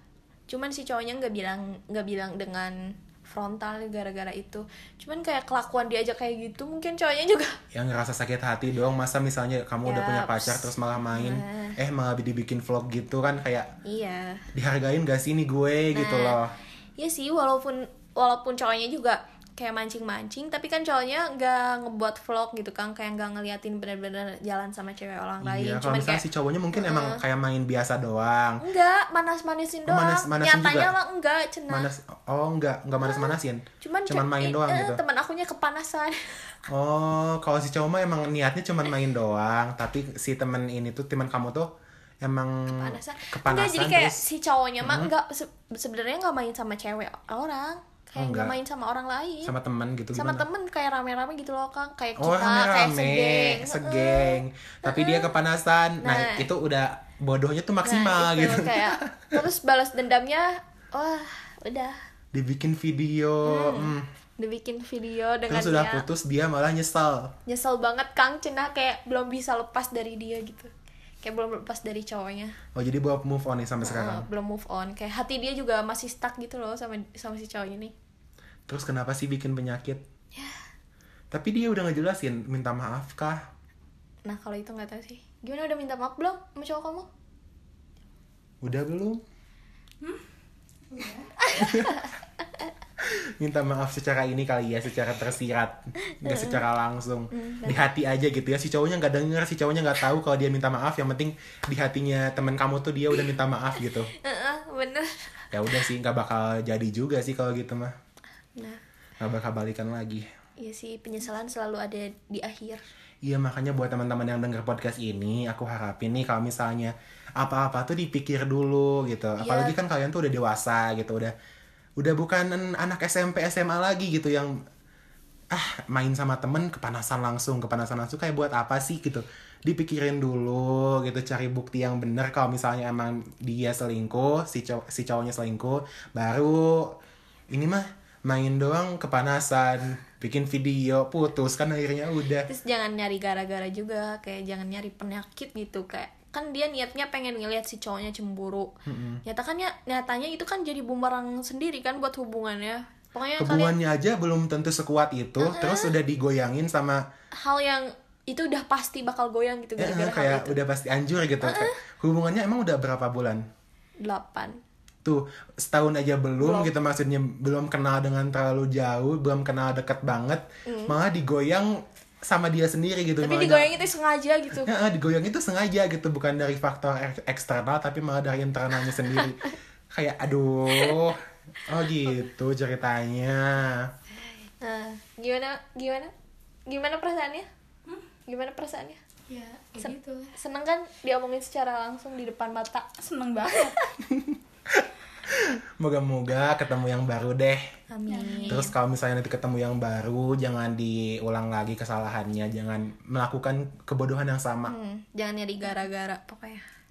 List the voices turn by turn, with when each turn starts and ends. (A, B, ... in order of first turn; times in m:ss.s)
0:00.5-0:07.6 A
0:07.7-0:13.7 B
0:09.8-0:11.8 A
0:13.8-0:14.5 A
0:14.5-0:16.6 B
0:15.9-0:16.4 A
0:17.0-0:27.2 A
0:25.4-0:28.6 B
0:28.6-0:31.9 A
0:29.9-0:30.9 B
0:31.7-0:35.0 B
0:33.0-0:36.6 A
0:36.7-0:41.7 B
0:42.2-0:44.2 B
0:42.7-0:49.5 A
0:44.8-0:45.1 B
0:48.2-0:48.6 B
0:49.4-0:50.5 B
0:50.1-0:55.4 A
0:52.2-0:59.4 B
0:56.0-0:56.5 A
0:57.8-1:02.0 A
1:02.3-1:04.1 B
1:03.4-1:06.1 A
1:05.5-1:07.3 B
1:07.5-1:10.7 A
1:11.2-1:12.6 A
1:12.8-1:14.3 B
1:13.8-1:18.0 A
1:18.7-1:20.0 B
1:20.4-1:20.6 A
1:21.3-1:23.5 B
1:24.2-1:27.1 A
1:28.6-1:29.2 B
1:30.9-1:31.3 C
1:31.4-1:32.1 A
1:31.5-1:32.0 B
1:33.0-1:44.2 B
1:36.1-1:36.6 A
1:37.3-1:37.9 A
1:43.9-1:45.9 A
1:45.5-1:47.9 B
1:49.2-1:50.2 B
1:50.6-1:52.8 A
1:53.2-2:01.3 B
1:59.4-1:59.8 A
2:02.0-2:04.6 B
2:05.5-2:17.0 B
2:17.5-2:22.5 B
2:22.5-2:28.7 A
2:28.9-2:29.2 B
2:29.2-2:33.8 A
2:33.4-2:37.0 B
2:35.4-2:36.0 A
2:37.3-2:40.6 A
2:39.8-2:43.4 B
2:41.4-2:41.8 A
2:44.0-2:44.6 A
2:45.0-2:51.7 B
2:46.4-2:46.7 A
2:50.6-2:51.0 A
2:52.2-2:53.7 B
2:53.2-2:54.7 A
2:54.5-3:03.9 B
2:59.0-2:59.5 A
3:00.7-3:01.0 A
3:04.4-3:06.1 A
3:06.7-3:07.5 A
3:08.3-3:09.0 A
3:09.3-3:10.3 C
3:09.8-3:13.9 A
3:13.1-3:13.9 C
3:14.0-3:17.6 B
3:17.9-3:18.7 A
3:18.2-3:18.6 C
3:18.5-3:24.8 B
3:24.7-3:26.6 A